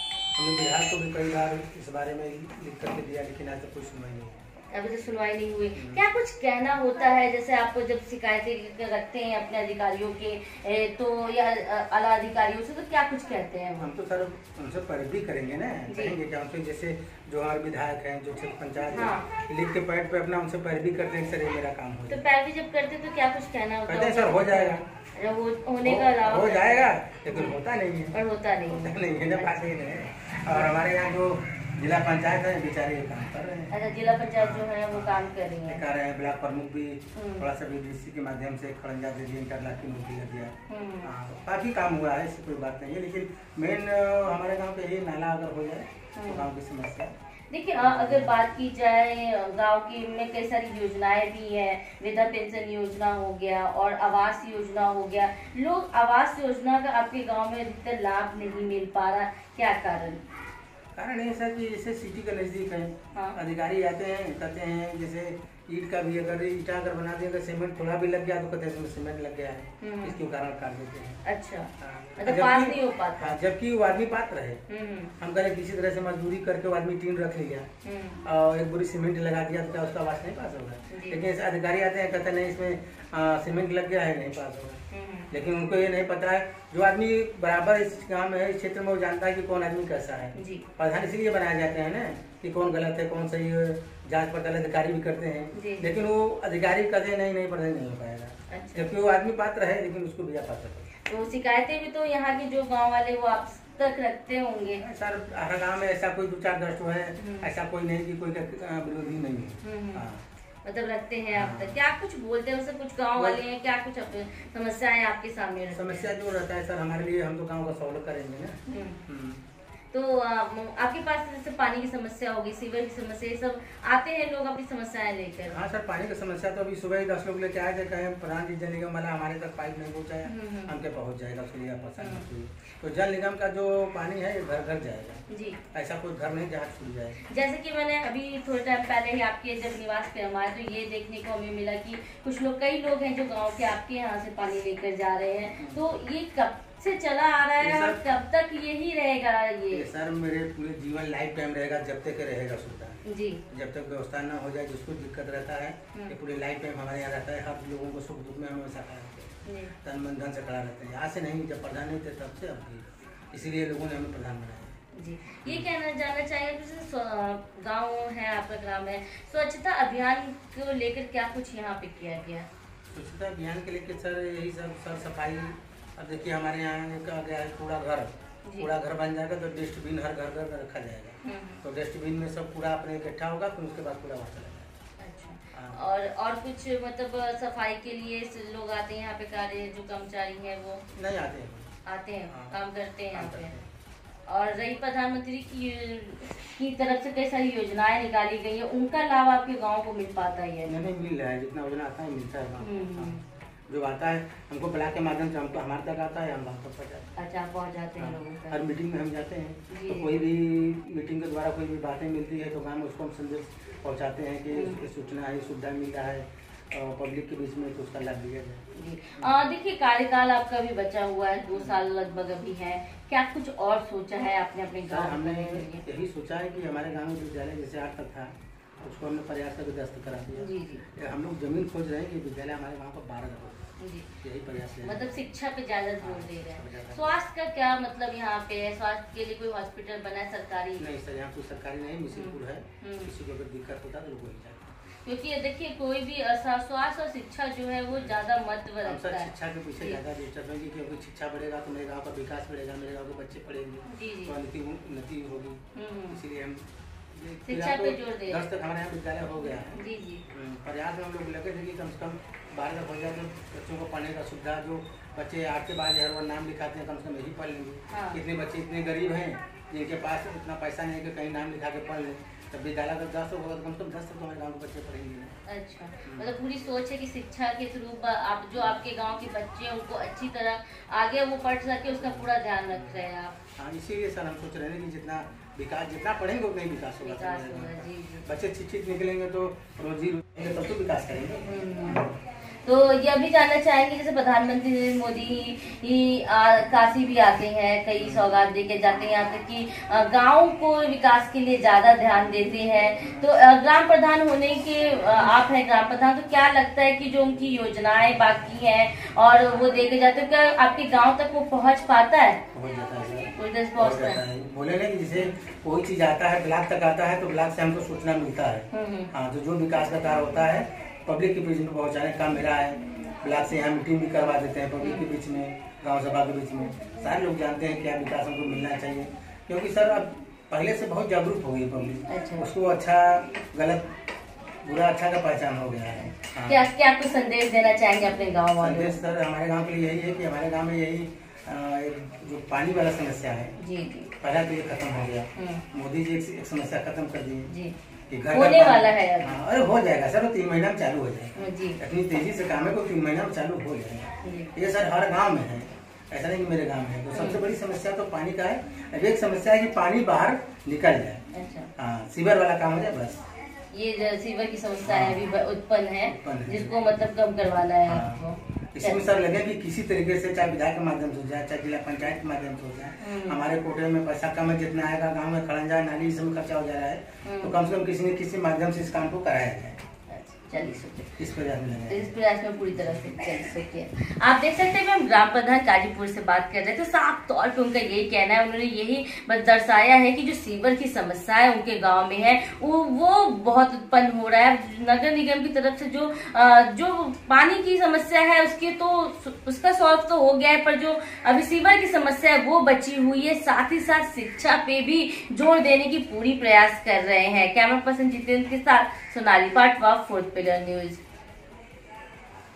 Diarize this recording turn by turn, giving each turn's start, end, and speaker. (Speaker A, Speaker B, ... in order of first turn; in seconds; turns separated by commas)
Speaker A: 0.3-4.5, Speaker B: 4.7-13.9, Speaker A: 5.7-6.0, Speaker A: 13.8-22.2, Speaker B: 15.9-16.2, Speaker B: 18.9-19.3, Speaker B: 22.1-27.6, Speaker A: 23.9-24.8, Speaker A: 25.8-33.7, Speaker B: 28.1-29.8, Speaker B: 30.5-30.7, Speaker B: 33.7-35.8, Speaker A: 34.4-47.1, Speaker B: 37.1-37.5, Speaker B: 40.7-41.1, Speaker B: 46.1-46.5, Speaker B: 47.5-60.2, Speaker A: 47.8-48.4, Speaker A: 60.9-71.2, Speaker B: 69.8-70.2, Speaker B: 71.2-73.4, Speaker A: 71.8-74.6, Speaker B: 74.7-75.1, Speaker A: 75.2-77.7, Speaker B: 77.8-78.2, Speaker A: 78.2-100.9, Speaker B: 80.9-81.2, Speaker B: 84.9-85.3, Speaker B: 90.3-90.7, Speaker B: 95.5-95.9, Speaker B: 98.5-98.9, Speaker B: 101.0-104.8, Speaker A: 104.8-110.2, Speaker B: 107.2-107.5, Speaker B: 109.6-110.0, Speaker B: 110.6-116.1, Speaker A: 111.3-111.8, Speaker A: 115.7-119.4, Speaker B: 118.7-119.0, Speaker B: 119.9-125.6, Speaker A: 125.5-137.2, Speaker B: 130.2-130.7, Speaker B: 132.0-132.2, Speaker B: 135.3-135.6, Speaker B: 137.2-149.8, Speaker A: 147.6-148.0, Speaker A: 149.7-164.8, Speaker B: 153.0-153.4, Speaker B: 159.4-159.7, Speaker B: 164.9-172.5, Speaker A: 172.9-184.7, Speaker B: 178.4-178.7, Speaker B: 181.2-181.6, Speaker B: 185.0-190.8, Speaker A: 185.5-185.8, Speaker A: 190.9-191.7, Speaker B: 191.8-193.5, Speaker A: 192.3-192.6, Speaker A: 193.1-193.6, Speaker B: 194.3-200.7, Speaker A: 200.7-207.1, Speaker B: 202.6-203.2, Speaker B: 207.2-208.7, Speaker A: 208.0-218.6, Speaker B: 209.7-210.2, Speaker B: 214.5-214.8, Speaker B: 218.7-225.8, Speaker A: 224.9-233.7, Speaker B: 230.3-230.8, Speaker B: 233.8-234.1, Speaker A: 234.2-235.1, Speaker B: 234.8-240.8, Speaker A: 236.0-237.2, Speaker A: 240.8-244.7, Speaker B: 242.1-243.1, Speaker B: 245.0-250.0, Speaker A: 247.9-248.2, Speaker A: 248.8-275.4, Speaker B: 253.8-254.4, Speaker B: 255.7-256.2, Speaker B: 257.5-258.4, Speaker B: 259.7-260.2, Speaker B: 267.9-268.2, Speaker B: 275.5-283.3, Speaker A: 276.0-276.3, Speaker A: 282.0-283.0, Speaker A: 283.6-292.1, Speaker B: 287.0-288.3, Speaker B: 291.4-292.1, Speaker B: 292.6-312.4, Speaker A: 298.0-298.3, Speaker A: 312.5-333.9, Speaker B: 313.3-314.2, Speaker B: 318.7-319.1, Speaker B: 324.8-325.1, Speaker B: 332.1-332.5, Speaker A: 334.6-336.7, Speaker B: 336.0-338.9, Speaker A: 338.6-343.5, Speaker B: 343.6-344.1, Speaker A: 344.2-347.5, Speaker B: 345.4-345.6, Speaker B: 347.5-347.7, Speaker A: 348.1-361.2, Speaker B: 348.3-349.4, Speaker B: 351.4-351.8, Speaker B: 354.2-354.5, Speaker B: 357.1-357.4, Speaker B: 361.3-361.7, Speaker A: 361.8-363.2, Speaker B: 363.7-369.1, Speaker A: 364.9-365.2, Speaker A: 366.1-366.8, Speaker A: 367.9-368.2, Speaker A: 368.7-379.8, Speaker B: 373.0-373.4, Speaker B: 377.2-377.5, Speaker B: 380.1-381.2, Speaker A: 381.2-382.2, Speaker B: 381.9-411.0, Speaker A: 382.8-383.1